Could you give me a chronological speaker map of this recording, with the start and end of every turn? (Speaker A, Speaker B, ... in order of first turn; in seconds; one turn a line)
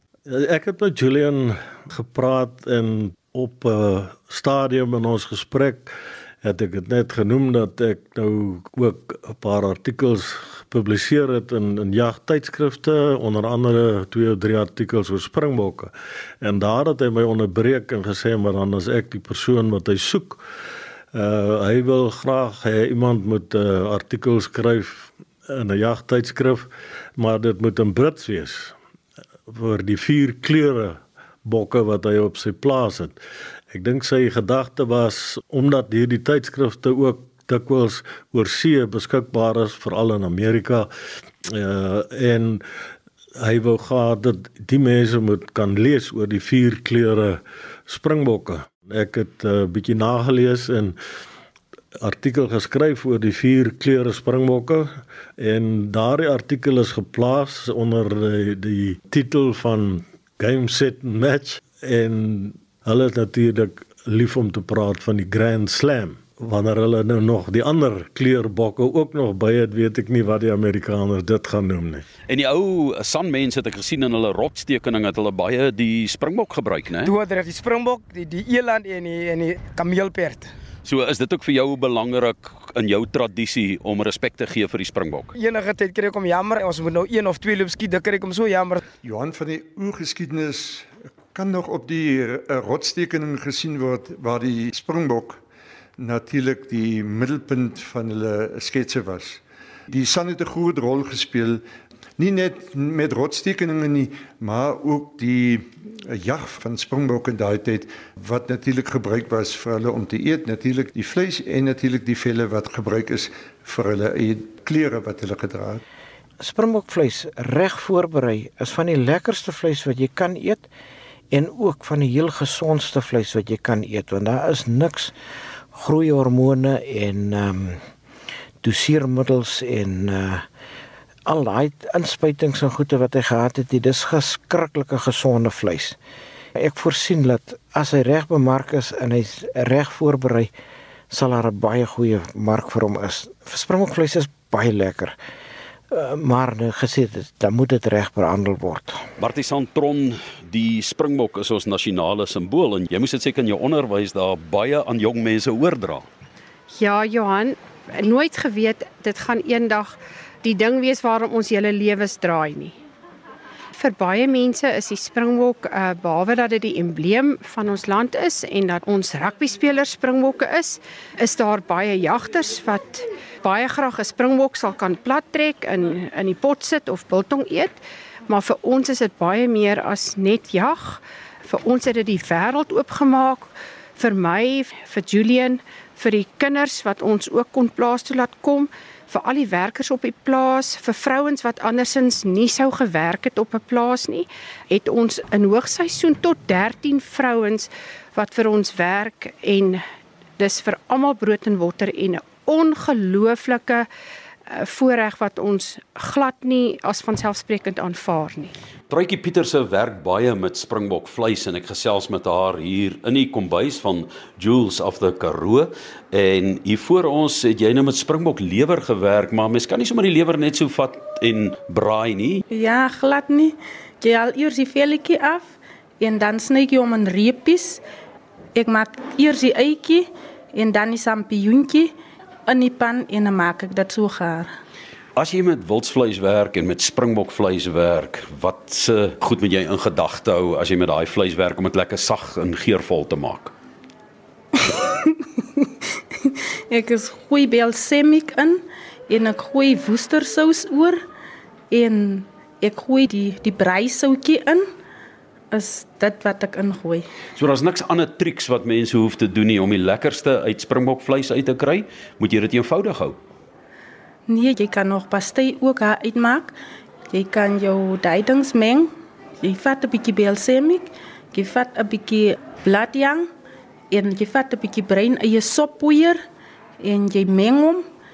Speaker A: 0.3-5.9
Speaker A: 6.4-20.4
Speaker A: 21.1-28.8
Speaker A: 29.5-33.1
Speaker A: 33.7-40.9
Speaker A: 41.5-42.6
Speaker A: 43.4-51.0
Speaker A: 52.0-72.0
Speaker B: 72.3-77.1
Speaker C: 77.0-80.5
Speaker B: 80.8-85.3
Speaker C: 85.3-88.8
Speaker D: 89.0-95.4
Speaker D: 96.0-101.6
Speaker D: 102.2-115.8
Speaker E: 116.4-120.7
Speaker E: 121.3-125.1
Speaker E: 125.7-127.8
Speaker E: 128.6-130.5
Speaker E: 131.2-136.0
Speaker E: 136.6-140.5
Speaker E: 141.1-145.2
Speaker E: 145.9-149.1
Speaker B: 149.2-156.1
Speaker F: 156.7-162.7
Speaker F: 163.8-177.8
Speaker F: 178.3-199.8
Speaker F: 200.4-203.9
Speaker F: 204.5-208.5
Speaker B: 208.9-222.4
Speaker G: 222.5-227.8
Speaker G: 228.5-231.9
Speaker G: 232.5-234.5
Speaker B: 235.2-243.5
Speaker G: 244.6-251.0
Speaker G: 251.7-254.7
Speaker G: 255.5-257.0
Speaker B: 257.3-263.2
Speaker G: 264.3-266.5
Speaker G: 267.1-273.3
Speaker G: 273.9-276.2
Speaker G: 276.8-277.8